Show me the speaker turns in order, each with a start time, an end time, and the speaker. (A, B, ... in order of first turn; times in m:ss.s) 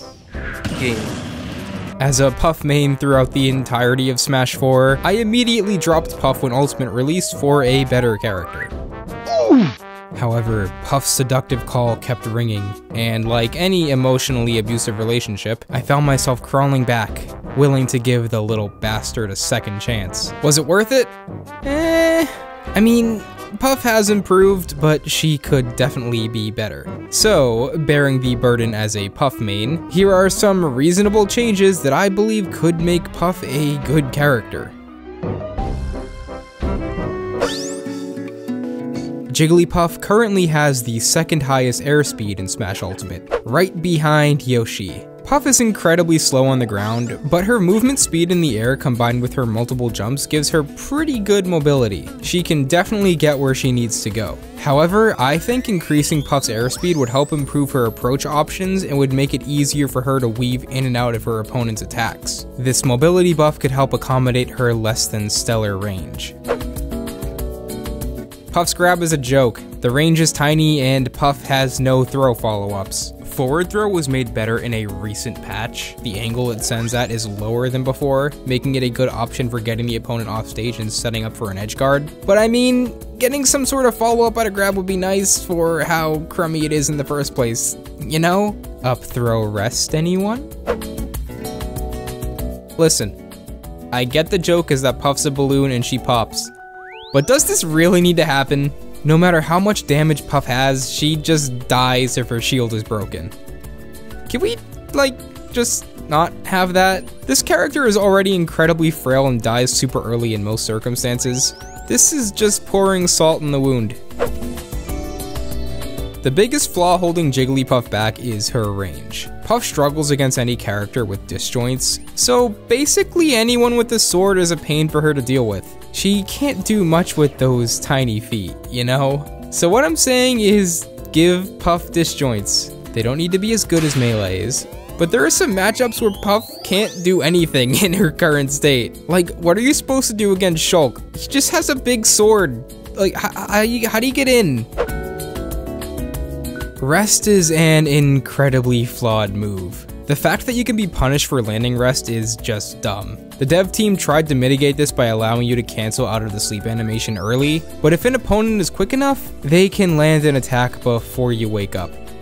0:02.0-0:08.7 A
0:10.1-0:34.7 A
0:39.3-1:06.3 A
1:08.5-1:30.5 A
1:32.8-1:33.2 A
1:33.9-1:36.5 A
1:37.1-1:43.3 A
1:44.3-1:54.0 A
1:56.2-2:24.7 A
2:26.8-2:42.0 A